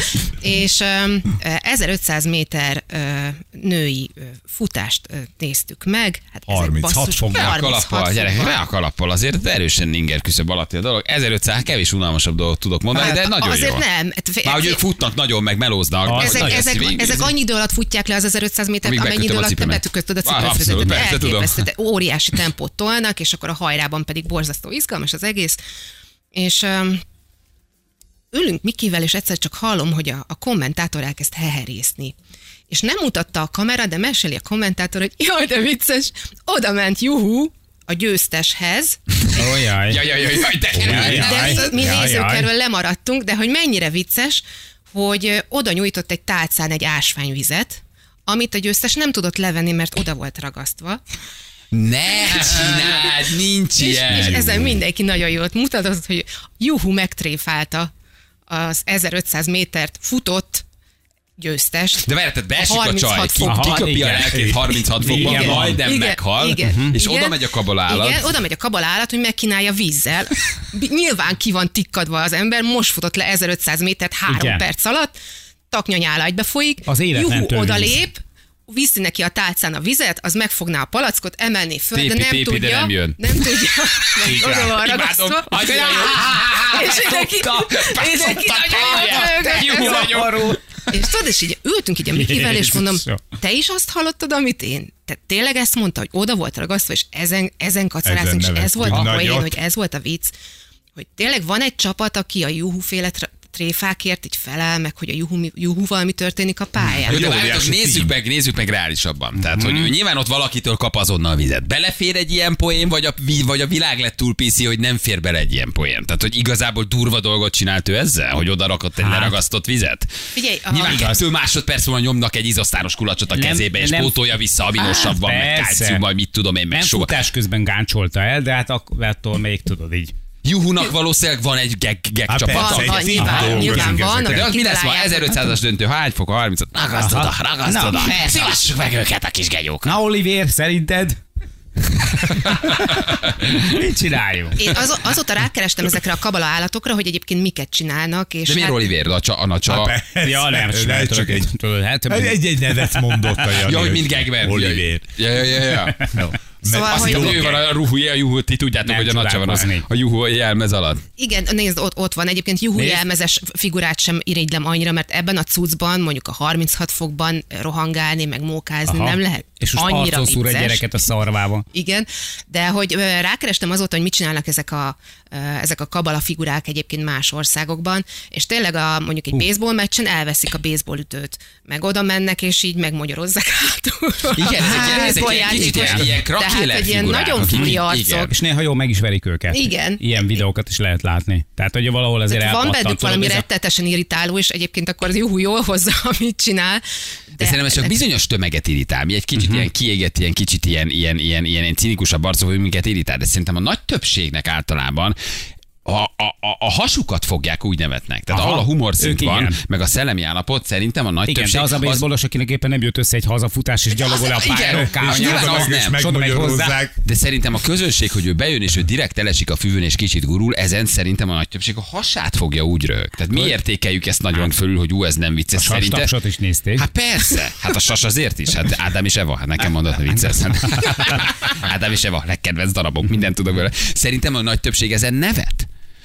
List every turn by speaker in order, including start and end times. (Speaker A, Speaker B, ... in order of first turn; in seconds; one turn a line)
Speaker A: 0.4-8.6
Speaker B: 6.5-7.6
Speaker C: 7.3-13.8
Speaker A: 12.9-14.8
Speaker C: 14.4-17.3
Speaker D: 16.0-16.8
Speaker A: 16.1-25.6
Speaker C: 18.8-21.6
Speaker A: 26.3-27.0
Speaker A: 28.3-32.1
Speaker A: 32.7-39.0
Speaker D: 39.3-40.0
Speaker C: 39.9-41.7
Speaker D: 40.7-42.5
Speaker A: 40.7-51.0
Speaker C: 51.7-54.7
Speaker A: 52.4-53.1
Speaker A: 53.8-57.9
Speaker D: 54.1-54.6
Speaker A: 58.5-60.6
Speaker A: 61.4-63.9
Speaker C: 62.0-68.3
Speaker D: 63.4-65.8
Speaker B: 64.3-65.7
Speaker A: 65.1-75.2
Speaker D: 66.6-66.9
Speaker D: 74.3-74.6
Speaker A: 75.7-86.1
Speaker D: 76.8-78.0
Speaker C: 81.9-90.5
Speaker D: 84.2-84.8
Speaker D: 85.5-91.0
Speaker A: 86.7-90.2
Speaker A: 90.9-100.3
Speaker D: 92.1-93.2
Speaker B: 98.0-99.6
Speaker C: 98.8-99.1
Speaker A: 101.0-107.2
Speaker B: 106.9-108.1
Speaker C: 107.0-120.1
Speaker D: 109.3-109.9
Speaker D: 119.0-119.4
Speaker A: 120.3-121.2
Speaker C: 120.7-127.1
Speaker D: 123.3-126.0
Speaker D: 126.7-130.1
Speaker C: 130.4-139.9
Speaker B: 132.3-134.5
Speaker A: 132.5-135.4
Speaker D: 133.2-134.0
Speaker D: 136.9-138.5
Speaker D: 139.8-141.2
Speaker D: 142.0-144.7
Speaker C: 142.3-143.6
Speaker A: 144.6-148.9
Speaker C: 148.4-149.9
Speaker B: 149.7-151.5
Speaker D: 150.2-153.6
Speaker B: 152.1-155.1
Speaker C: 153.6-156.2
Speaker B: 156.0-157.6
Speaker A: 156.6-157.6
Speaker C: 156.8-161.0
Speaker D: 158.8-159.8
Speaker A: 161.2-170.8
Speaker D: 162.8-163.0
Speaker D: 168.8-171.6
Speaker A: 171.7-188.3
Speaker D: 184.4-186.2
Speaker C: 184.4-188.3
Speaker D: 187.4-193.4
Speaker A: 189.5-190.4
Speaker A: 192.3-198.0
Speaker C: 197.4-205.2
Speaker D: 199.3-199.7
Speaker C: 205.8-212.0
Speaker D: 208.3-209.6
Speaker D: 211.2-216.8
Speaker C: 214.0-216.0
Speaker B: 214.6-216.9
Speaker C: 217.0-226.1
Speaker D: 225.5-226.8
Speaker C: 226.8-235.7